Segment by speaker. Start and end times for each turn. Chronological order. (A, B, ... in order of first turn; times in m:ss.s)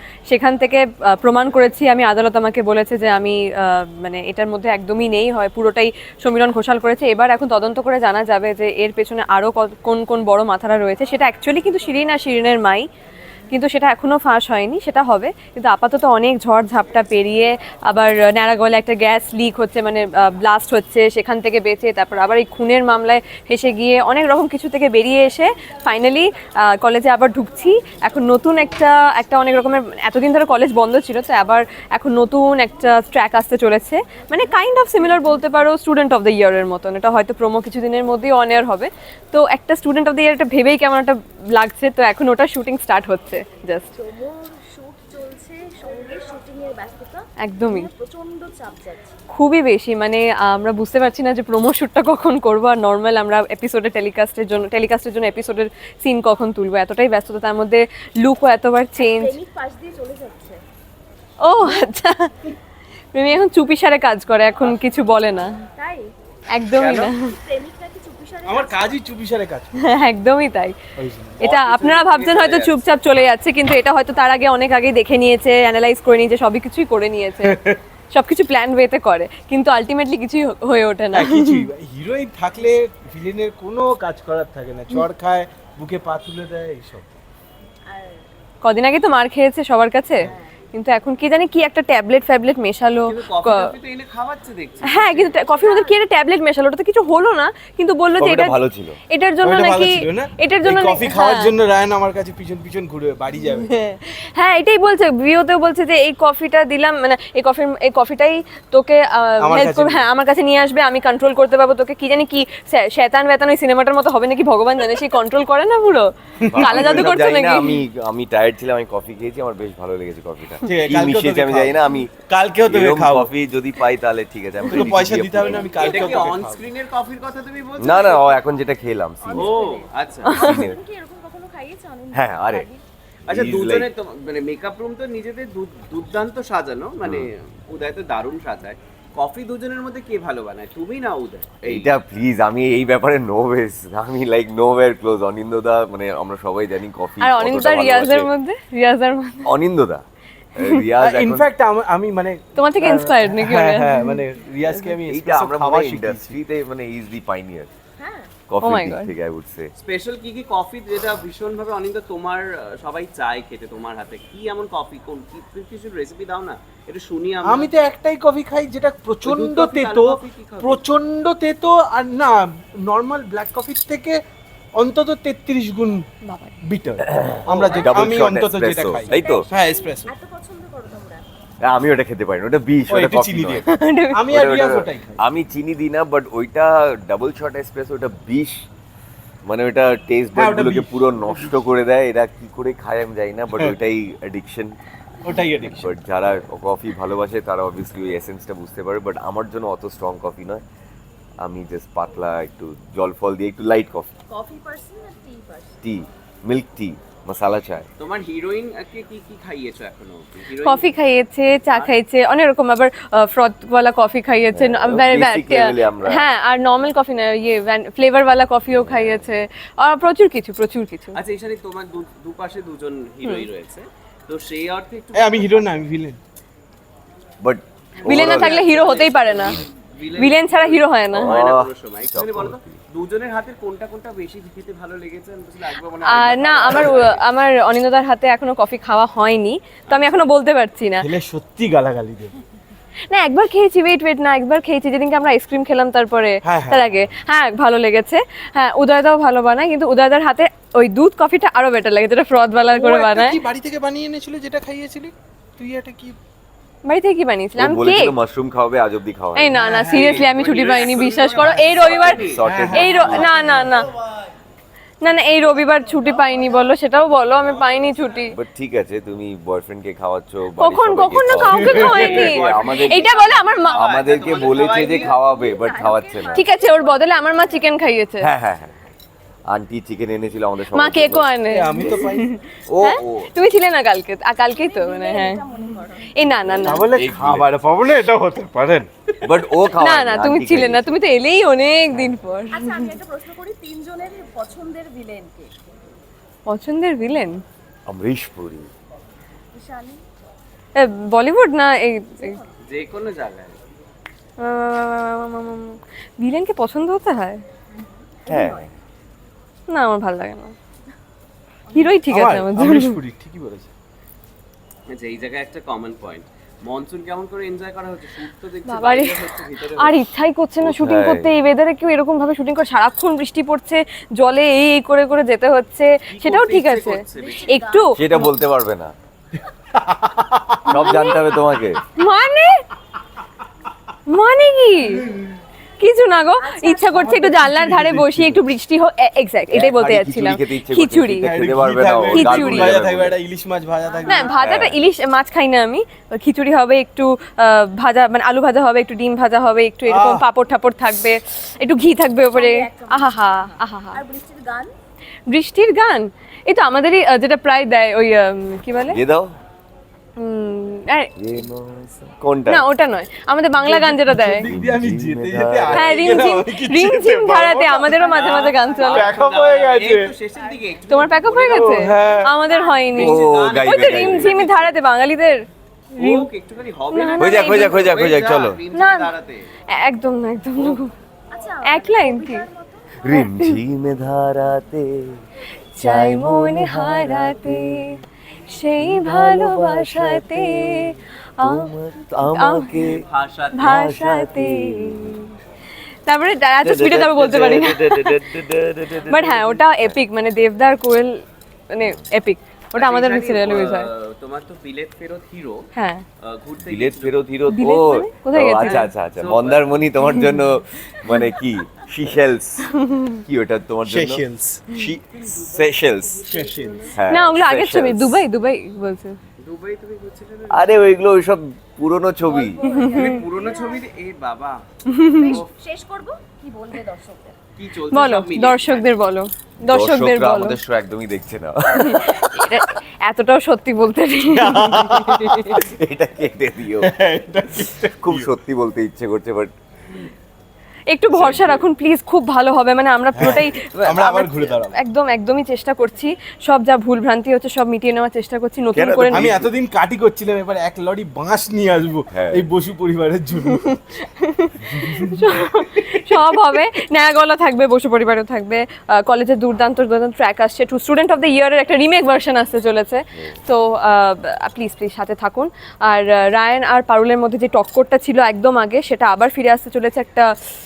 0:00.3-0:12.8 A
0:13.5-0:44.0 A
0:44.0-0:49.1 B
0:47.4-0:47.9 A
0:49.3-0:59.4 A
0:59.0-1:00.6 B
1:01.4-1:02.3 A
1:03.1-1:05.5 A
1:05.8-1:06.1 B
1:06.5-1:07.2 A
1:06.7-1:07.1 C
1:07.1-1:09.0 B
1:08.4-1:09.9 C
1:09.8-1:10.8 A
1:11.0-1:12.8 C
1:11.4-1:17.6 A
1:17.5-1:17.8 C
1:18.1-1:21.6 A
1:21.1-1:27.1 C
1:27.9-1:28.3 B
1:28.6-1:33.7 A
1:30.2-1:30.6 B
1:33.0-1:35.3 D
1:34.8-1:38.6 A
1:35.4-1:36.0 B
1:38.2-1:39.0 E
1:39.1-1:41.5 A
1:39.4-1:43.7 C
1:43.4-1:57.8 A
1:49.4-1:50.0 C
1:56.4-1:57.1 C
1:56.5-2:02.1 E
2:00.7-2:03.3 C
2:02.6-2:05.7 E
2:04.6-2:06.7 C
2:05.3-2:06.3 B
2:05.8-2:08.5 D
2:07.8-2:09.5 E
2:09.2-2:09.9 B
2:09.3-2:10.5 D
2:10.2-2:10.7 A
2:10.3-2:10.8 E
2:10.5-2:12.8 B
2:12.1-2:12.7 E
2:13.3-2:22.0 D
2:13.3-2:13.9 E
2:17.0-2:17.3 E
2:21.6-2:28.3 E
2:27.2-2:29.5 A
2:29.4-2:31.5 E
2:31.0-2:36.4 C
2:32.6-2:34.7 A
2:35.1-2:37.7 E
2:38.0-2:38.3 B
2:38.5-2:39.7 E
2:38.6-2:39.1 A
2:39.8-2:47.7 D
2:47.4-2:54.2 C
2:49.2-2:50.8 D
2:54.8-2:56.0 C
2:56.2-2:56.6 A
2:56.6-3:00.1 C
2:57.0-2:59.5 E
2:57.5-2:58.2 D
2:59.1-3:01.3 B
3:01.6-3:03.6 E
3:02.9-3:05.2 C
3:03.6-3:04.2 A
3:04.3-3:08.7 E
3:09.4-3:14.8 E
3:10.4-3:11.6 C
3:15.2-3:15.9 C
3:15.6-3:20.6 E
3:21.4-3:24.1 E
3:24.3-3:25.8 B
3:25.8-3:27.9 E
3:28.0-3:31.0 D
3:30.6-3:41.2 A
3:31.7-3:32.0 D
3:34.5-3:36.2 E
3:38.7-3:39.4 E
3:41.1-3:45.8 D
3:45.1-3:46.2 C
3:47.4-3:48.8 E
3:48.0-3:57.2 D
3:48.0-3:49.6 A
3:50.1-3:51.4 A
3:51.1-3:52.8 E
3:56.0-4:01.1 A
3:59.9-4:00.2 D
4:01.0-4:02.4 C
4:03.1-4:13.4 A
4:06.4-4:06.8 C
4:12.7-4:16.2 C
4:16.8-4:18.1 A
4:17.6-4:19.6 E
4:19.3-4:23.9 A
4:19.5-4:20.3 C
4:19.9-4:22.4 D
4:21.3-4:23.7 C
4:21.8-4:23.3 E
4:25.0-4:28.3 A
4:28.3-4:33.1 E
4:30.6-4:33.9 A
4:31.5-4:32.3 C
4:31.7-4:35.2 D
4:33.7-4:36.4 E
4:34.5-4:37.9 B
4:36.3-4:38.3 A
4:38.2-4:38.9 E
4:39.5-4:41.3 E
4:40.7-4:45.4 A
4:41.5-4:42.3 C
4:42.7-4:43.3 E
4:44.5-4:46.7 B
4:46.1-4:46.9 A
4:46.6-4:48.9 C
4:46.9-4:47.5 E
4:49.2-4:50.9 E
4:49.8-4:52.9 A
4:52.5-4:55.5 B
4:56.4-4:57.4 A
4:57.9-4:58.7 E
4:59.5-5:00.0 B
5:00.8-5:02.4 A
5:02.2-5:02.5 B
5:02.6-5:03.6 D
5:04.4-5:07.4 A
5:07.7-5:08.7 B
5:08.3-5:08.7 E
5:09.7-5:10.5 A
5:11.7-5:12.1 B
5:11.7-5:13.0 A
5:12.1-5:13.7 C
5:14.9-5:20.0 D
5:18.7-5:19.2 A
5:19.8-5:27.9 A
5:20.6-5:21.3 E
5:26.1-5:27.5 D
5:27.1-5:28.0 B
5:28.0-5:28.9 E
5:29.7-5:31.1 C
5:30.7-5:31.8 E
5:30.7-5:31.2 A
5:31.9-5:32.6 A
5:34.1-5:35.1 A
5:35.8-5:41.3 A
5:36.4-5:37.4 B
5:36.9-5:38.4 C
5:39.5-5:43.2 E
5:41.2-5:44.3 C
5:42.1-5:42.7 A
5:43.8-5:44.4 B
5:44.1-5:54.0 A
5:44.4-5:44.8 E
5:49.9-5:50.2 C
5:52.3-5:54.7 B
5:55.3-5:59.0 A
5:58.9-5:59.4 E
6:00.2-6:01.1 A
6:01.2-6:02.6 E
6:02.5-6:04.5 A
6:03.6-6:10.2 C
6:04.4-6:06.3 E
6:05.7-6:09.1 A
6:08.0-6:08.9 B
6:08.1-6:11.9 D
6:10.4-6:10.8 B
6:10.9-6:15.4 A
6:11.5-6:12.4 C
6:12.4-6:13.0 B
6:12.9-6:14.7 D
6:12.9-6:14.4 E
6:16.0-6:19.5 D
6:16.0-6:16.3 A
6:16.9-6:17.8 A
6:17.2-6:18.6 E
6:18.7-6:19.1 A
6:19.7-6:20.9 A
6:21.3-6:23.0 B
6:21.7-6:22.4 A
6:23.0-6:25.2 E
6:23.1-6:23.6 A
6:25.7-6:31.7 A
6:25.8-6:27.8 E
6:28.8-6:33.0 E
6:32.3-6:32.7 A
6:32.8-6:33.7 D
6:33.6-6:35.3 A
6:33.6-6:35.2 E
6:36.1-6:38.1 A
6:36.6-6:40.0 E
6:39.1-6:43.9 A
6:42.7-6:45.6 D
6:45.7-6:46.0 A
6:46.2-6:47.2 D
6:46.6-6:52.7 E
6:47.5-6:48.9 A
6:48.6-6:49.8 D
6:50.1-6:50.4 A
6:52.8-6:53.2 A
6:53.2-6:56.3 E
6:53.8-6:54.7 C
6:55.1-6:56.4 D
6:56.3-6:56.9 C
6:56.3-6:57.0 B
6:56.9-6:58.2 E
6:57.1-6:59.2 A
6:59.4-7:00.8 D
7:00.5-7:02.6 E
7:02.2-7:03.9 B
7:02.8-7:03.1 A
7:02.8-7:04.6 D
7:04.9-7:05.4 A
7:05.0-7:07.4 B
7:07.6-7:08.9 D
7:07.9-7:10.6 A
7:09.6-7:12.3 E
7:11.7-7:15.6 A
7:14.3-7:15.6 C
7:15.3-7:16.9 E
7:16.8-7:18.3 C
7:17.8-7:20.0 E
7:20.9-7:29.3 A
7:21.1-7:21.7 E
7:23.1-7:24.8 C
7:23.2-7:24.0 E
7:28.7-7:29.5 E
7:29.0-7:33.8 C
7:32.1-7:32.5 E
7:34.0-7:50.3 A
7:34.6-7:36.0 C